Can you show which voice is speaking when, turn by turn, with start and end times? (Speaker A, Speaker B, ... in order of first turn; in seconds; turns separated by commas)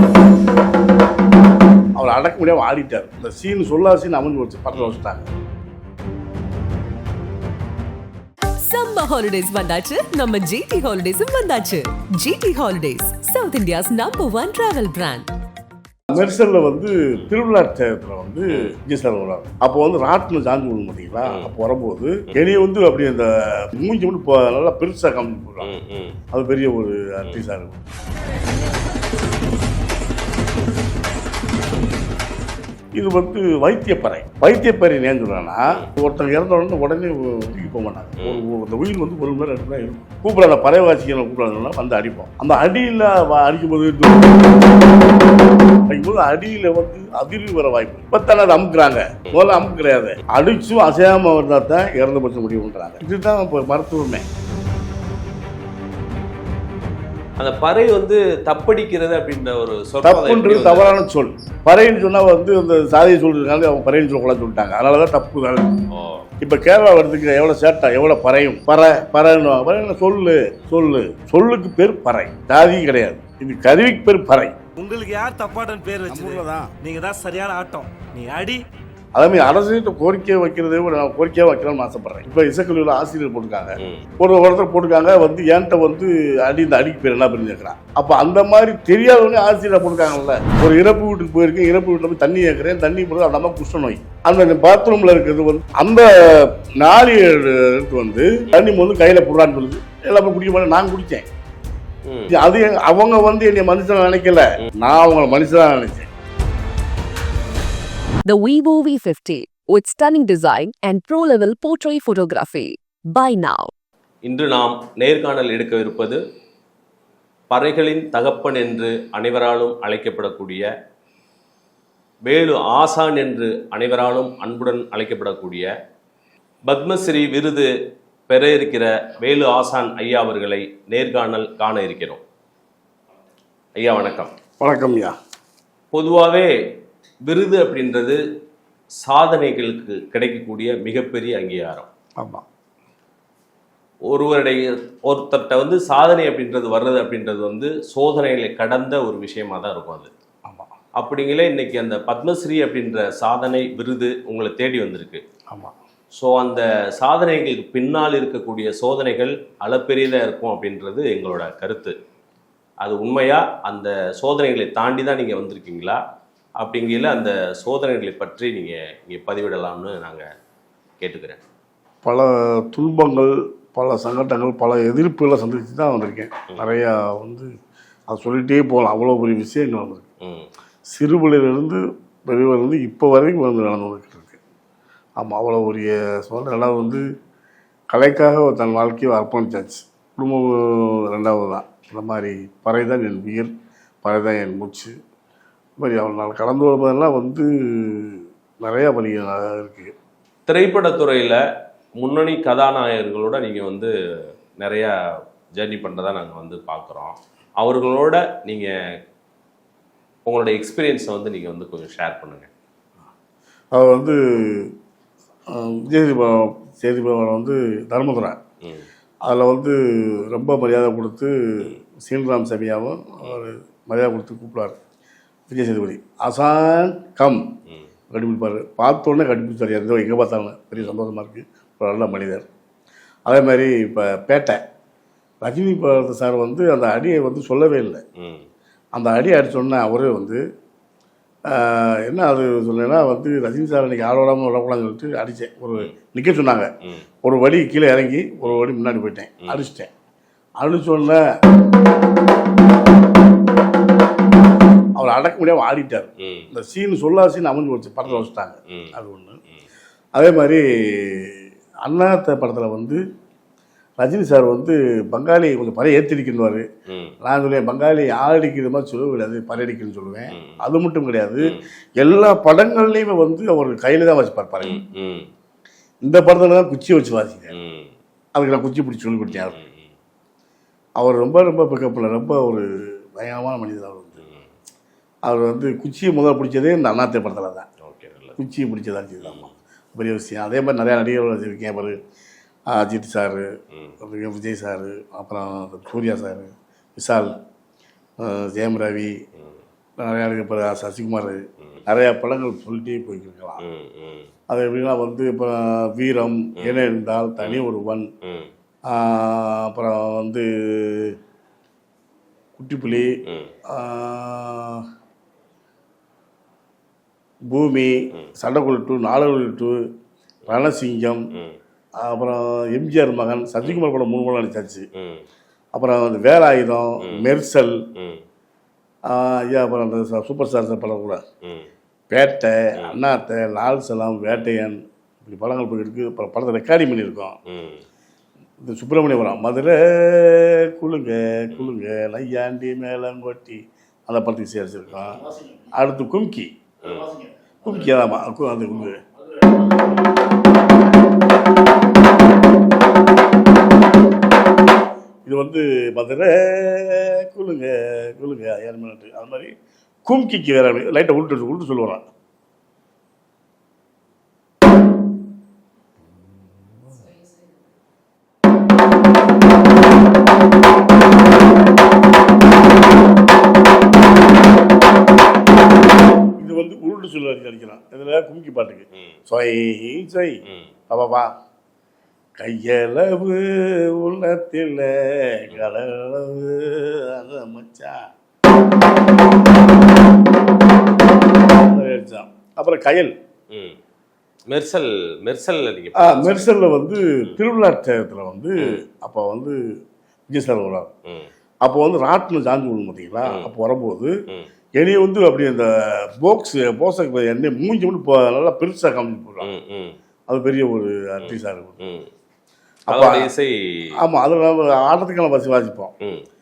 Speaker A: 2.0-5.3, Speaker B: 8.6-15.3, Speaker A: 16.1-25.7, Speaker C: 21.2-21.5, Speaker C: 25.6-26.2, Speaker A: 26.3-27.8, Speaker A: 33.0-44.5, Speaker A: 45.9-54.3, Speaker C: 49.3-49.5, Speaker C: 57.4-61.0, Speaker A: 60.0-65.7, Speaker C: 65.9-66.3, Speaker A: 66.4-74.5, Speaker D: 74.8-78.6, Speaker A: 76.1-76.7, Speaker A: 79.2-101.3, Speaker C: 83.8-84.0, Speaker C: 102.0-102.4, Speaker A: 102.3-106.1, Speaker B: 108.3-113.7, Speaker C: 114.2-116.2, Speaker C: 117.5-120.7, Speaker C: 122.3-125.7, Speaker C: 126.7-127.7, Speaker C: 128.3-132.2, Speaker C: 133.8-134.3, Speaker A: 134.6-135.2, Speaker C: 135.9-136.5, Speaker C: 137.2-138.2, Speaker C: 139.0-141.9, Speaker A: 142.2-142.4, Speaker C: 144.1-150.1, Speaker A: 150.5-150.7, Speaker C: 151.0-155.2, Speaker A: 155.5-155.8, Speaker C: 156.2-162.0, Speaker C: 162.8-166.0, Speaker C: 166.6-170.3, Speaker C: 171.0-171.4, Speaker A: 172.0-177.5, Speaker A: 178.1-180.1, Speaker C: 180.2-180.5, Speaker A: 180.9-184.4, Speaker A: 185.2-187.1, Speaker A: 187.9-194.9, Speaker A: 195.8-199.9, Speaker C: 200.5-201.4, Speaker C: 202.0-208.7, Speaker C: 210.3-212.5, Speaker A: 213.7-214.7, Speaker A: 215.5-218.4, Speaker C: 218.6-218.9, Speaker A: 219.2-224.8, Speaker A: 225.5-227.4, Speaker A: 228.1-232.5, Speaker A: 233.3-234.6, Speaker A: 235.4-238.0, Speaker C: 238.2-238.5, Speaker A: 238.9-240.4, Speaker A: 241.5-246.7, Speaker A: 247.2-249.9, Speaker A: 250.6-251.2, Speaker A: 255.0-259.4, Speaker C: 256.2-256.5, Speaker C: 258.1-258.9, Speaker A: 260.1-263.0, Speaker A: 264.0-266.7, Speaker C: 266.9-267.1, Speaker A: 267.2-274.8, Speaker C: 270.3-270.6, Speaker C: 274.6-275.3, Speaker A: 276.0-277.5, Speaker C: 277.5-277.9, Speaker A: 278.4-279.6, Speaker C: 279.3-279.9, Speaker A: 281.0-284.2, Speaker C: 284.2-284.5, Speaker A: 285.2-287.7, Speaker C: 287.8-288.4, Speaker A: 288.4-292.0, Speaker C: 289.2-289.5, Speaker A: 292.7-293.5, Speaker A: 294.0-297.4, Speaker A: 298.2-299.1, Speaker C: 299.4-299.6, Speaker A: 300.0-303.6, Speaker C: 303.6-304.3, Speaker A: 304.5-308.1, Speaker C: 306.6-306.8, Speaker C: 308.2-308.5, Speaker A: 308.9-311.2, Speaker A: 312.6-314.9, Speaker C: 313.2-313.5, Speaker A: 317.5-319.8, Speaker A: 320.5-321.3, Speaker C: 321.3-321.6, Speaker A: 322.0-324.9, Speaker C: 324.9-325.3, Speaker A: 325.7-327.8, Speaker C: 327.0-327.3, Speaker C: 327.9-328.2, Speaker A: 329.1-331.2, Speaker C: 331.4-331.7, Speaker A: 332.1-337.4, Speaker C: 337.5-337.8, Speaker A: 338.6-346.5, Speaker C: 346.8-347.1, Speaker A: 347.6-349.0, Speaker A: 355.2-359.5, Speaker A: 360.1-362.1, Speaker A: 376.4-381.3, Speaker C: 380.5-380.7, Speaker A: 382.4-388.1, Speaker A: 391.6-393.1, Speaker C: 393.5-393.8, Speaker C: 394.5-396.4, Speaker A: 396.0-399.6, Speaker A: 400.3-400.9, Speaker A: 401.6-404.1, Speaker C: 403.2-403.5, Speaker A: 404.8-409.5, Speaker C: 409.4-410.0, Speaker A: 410.3-411.8, Speaker C: 411.2-412.1, Speaker A: 412.9-413.3, Speaker C: 412.9-413.9, Speaker A: 414.0-415.9, Speaker C: 416.0-416.2